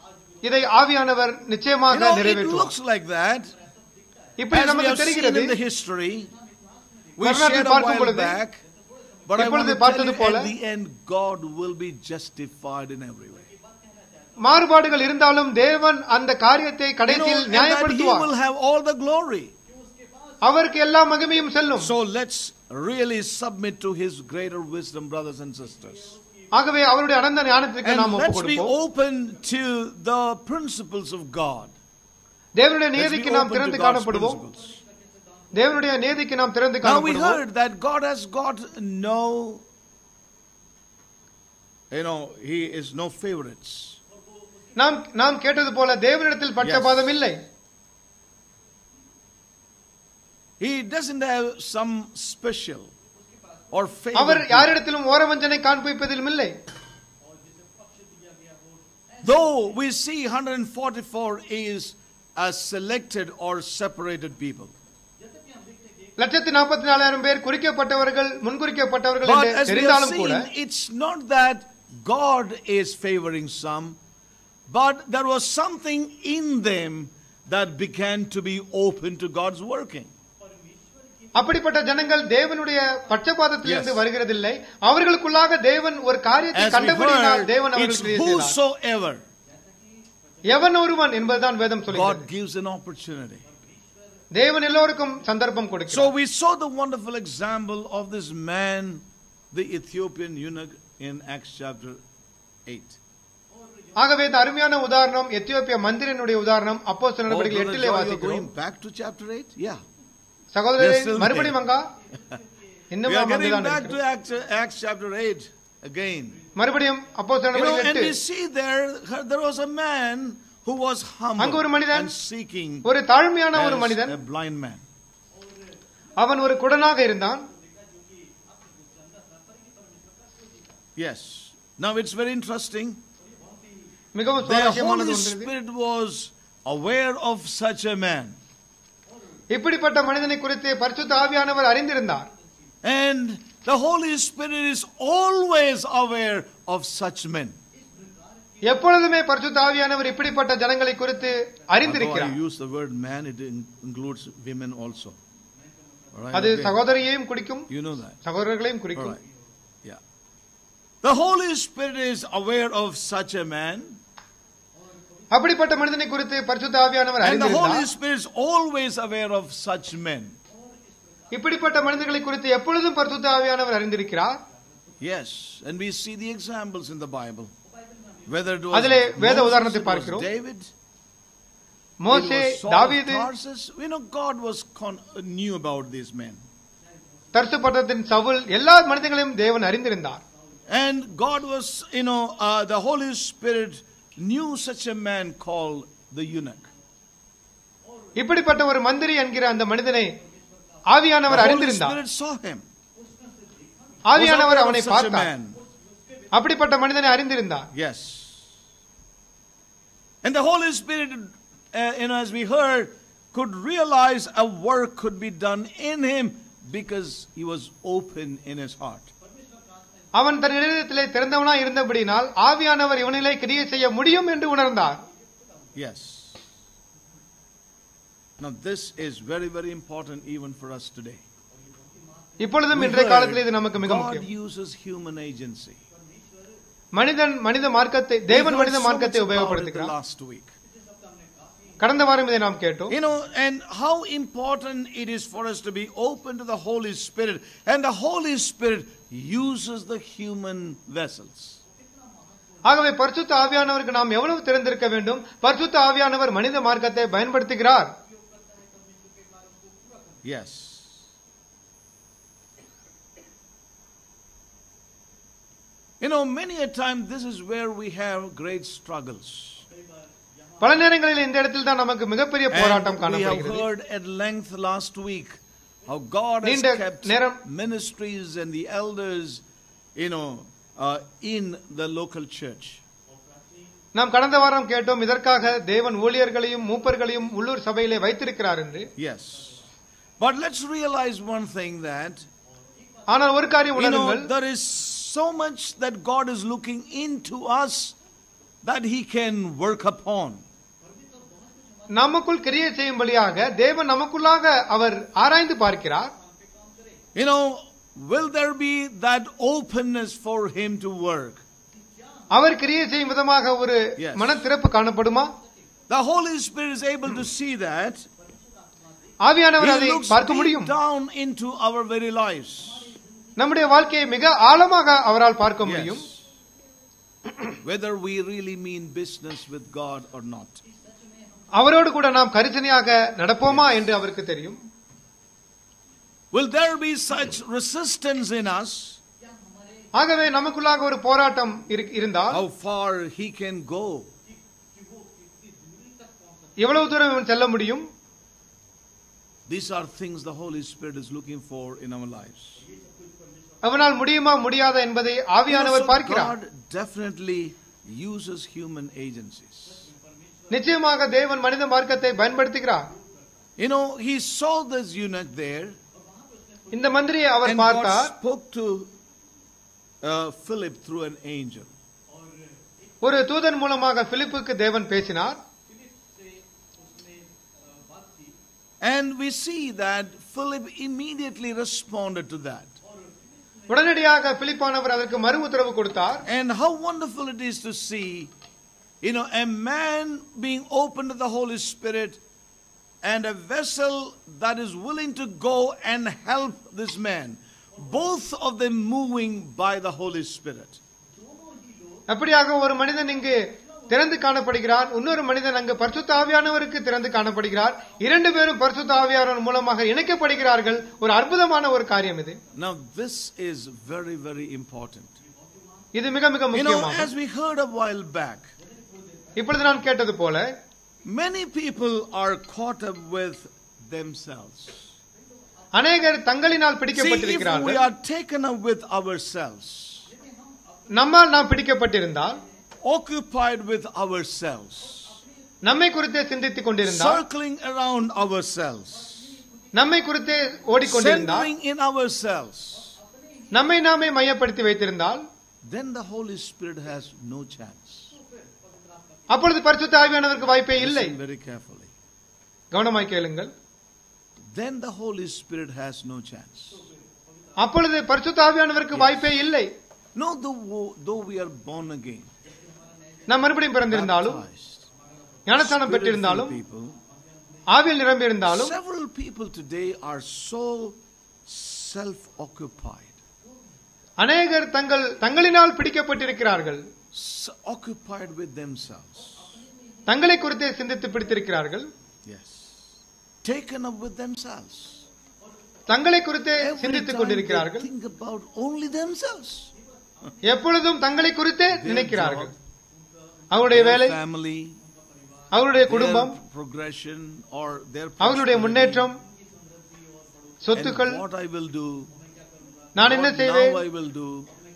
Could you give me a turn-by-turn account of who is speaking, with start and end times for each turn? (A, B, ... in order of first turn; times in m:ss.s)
0:00.4-0:02.7 A
0:01.9-0:03.6 B
0:04.4-0:05.6 A
0:04.5-0:06.3 B
0:07.2-0:08.6 B
0:07.2-0:08.4 A
0:09.3-0:13.5 B
0:09.4-0:10.5 A
0:14.4-0:18.3 A
0:17.1-0:19.5 B
0:20.4-0:21.9 A
0:21.8-0:26.2 B
0:26.5-0:28.7 A
0:27.8-0:31.8 B
0:32.6-0:34.4 A
0:33.0-0:34.8 B
0:35.5-0:37.4 A
0:36.8-0:39.6 B
0:41.9-0:44.0 B
0:44.8-0:47.4 A
0:46.6-0:47.1 B
0:50.6-0:52.9 B
0:53.7-0:54.8 B
0:54.2-0:56.5 A
0:59.2-1:04.8 B
1:06.2-1:10.5 A
1:09.2-1:14.0 B
1:14.7-1:20.1 B
1:21.4-1:28.6 A
1:23.6-1:24.0 B
1:26.5-1:29.3 B
1:30.5-1:32.3 A
1:31.9-1:33.5 B
1:34.3-1:36.1 A
1:35.9-1:42.0 B
1:42.7-1:43.0 B
1:44.0-1:48.5 A
1:47.3-1:49.8 B
1:50.5-1:51.9 A
1:50.8-1:51.6 B
1:52.1-1:52.4 B
1:52.9-1:54.0 A
1:53.0-1:56.4 B
1:56.6-1:58.2 A
1:57.5-2:02.9 B
2:01.4-2:02.1 A
2:02.8-2:04.2 A
2:03.5-2:04.8 B
2:06.2-2:07.5 A
2:11.0-2:13.0 B
2:14.2-2:15.5 A
2:14.4-2:18.4 B
2:19.5-2:22.3 A
2:22.8-2:27.6 B
2:28.7-2:32.4 A
2:31.8-2:35.2 B
2:36.1-2:36.8 B
2:36.3-2:37.7 A
2:37.7-2:38.2 B
2:38.2-2:39.2 A
2:39.0-2:39.2 B
2:41.0-2:44.0 B
2:45.3-2:47.9 A
2:47.2-2:50.4 B
2:51.3-2:54.4 A
2:55.0-2:57.5 B
2:58.3-3:00.7 B
2:58.7-3:00.3 A
3:02.0-3:03.3 A
3:02.1-3:06.4 B
3:07.3-3:10.2 A
3:10.7-3:16.7 B
3:18.2-3:20.1 A
3:20.9-3:22.0 A
3:21.3-3:22.6 B
3:24.1-3:25.3 A
3:24.2-3:25.6 B
3:26.3-3:27.7 A
3:27.7-3:28.5 B
3:30.2-3:39.1 B
3:40.2-3:45.0 A
3:45.8-3:46.5 B
3:48.4-3:51.2 B
3:52.4-3:54.3 A
3:52.7-3:55.8 B
3:57.0-3:59.9 A
3:58.3-4:00.5 B
4:01.8-4:03.0 A
4:02.9-4:11.6 B
4:12.7-4:17.9 A
4:20.2-4:21.1 B
4:26.0-4:29.7 B
4:30.6-4:33.6 A
4:32.5-4:39.4 B
4:36.4-4:37.4 A
4:40.0-4:42.8 B
4:44.0-4:48.9 A
4:49.0-4:49.6 B
4:50.2-4:52.3 B
4:53.1-4:54.3 A
4:53.8-4:58.0 B
4:58.6-5:00.4 B
5:01.9-5:06.1 A
5:07.2-5:11.4 B
5:12.3-5:15.3 A
5:14.0-5:14.4 B
5:15.9-5:18.1 B
5:19.2-5:20.7 A
5:19.6-5:22.9 B
5:23.4-5:26.0 A
5:25.6-5:26.2 B
5:27.6-5:30.6 B
5:31.6-5:34.6 A
5:33.5-5:33.9 B
5:36.3-5:39.0 B
5:40.0-5:42.4 A
5:42.3-5:44.1 B
5:46.6-5:47.9 A
5:49.5-5:52.6 B
5:53.6-5:56.3 A
5:55.5-5:59.9 B
6:00.5-6:02.8 A
6:03.6-6:05.8 B
6:06.7-6:08.1 A
6:07.4-6:08.9 B
6:10.0-6:11.7 B
6:13.0-6:15.4 A
6:18.8-6:22.7 B
6:23.7-6:26.3 A
6:26.3-6:28.3 B
6:29.0-6:32.2 B
6:33.0-6:40.8 B
6:42.1-6:52.4 A
6:52.6-6:55.2 B
6:55.9-6:57.1 A
6:56.5-6:58.5 B
6:59.4-7:00.5 A
7:01.0-7:04.9 B
7:05.8-7:07.8 A
7:06.9-7:10.1 B
7:10.9-7:12.4 A
7:12.8-7:15.2 B
7:15.6-7:17.2 A
7:16.8-7:19.4 B
7:19.8-7:21.5 A
7:20.8-7:23.0 B
7:23.5-7:25.2 A
7:25.6-7:28.2 B
7:29.3-7:31.2 A
7:30.8-7:31.9 B
7:32.7-7:33.5 A
7:34.4-7:36.9 B
7:37.6-7:39.7 A
7:38.9-7:39.3 B
7:40.2-7:42.3 B
7:43.3-7:44.4 A
7:43.9-7:44.9 B
7:45.5-7:46.6 A
7:45.6-7:47.0 B
7:47.7-7:48.8 A
7:48.5-7:53.2 B
7:54.2-7:56.8 A
7:57.1-7:59.6 B
8:00.1-8:01.9 A
8:02.3-8:05.1 B
8:05.9-8:07.9 A
8:06.6-8:09.7 B
8:10.5-8:12.5 A
8:11.7-8:12.6 B
8:13.5-8:14.2 A
8:13.7-8:14.8 B
8:15.5-8:16.4 A
8:15.8-8:19.1 B
8:18.2-8:19.2 A
8:20.6-8:21.2 A
8:20.7-8:22.1 B
8:23.0-8:23.8 A
8:23.0-8:24.5 B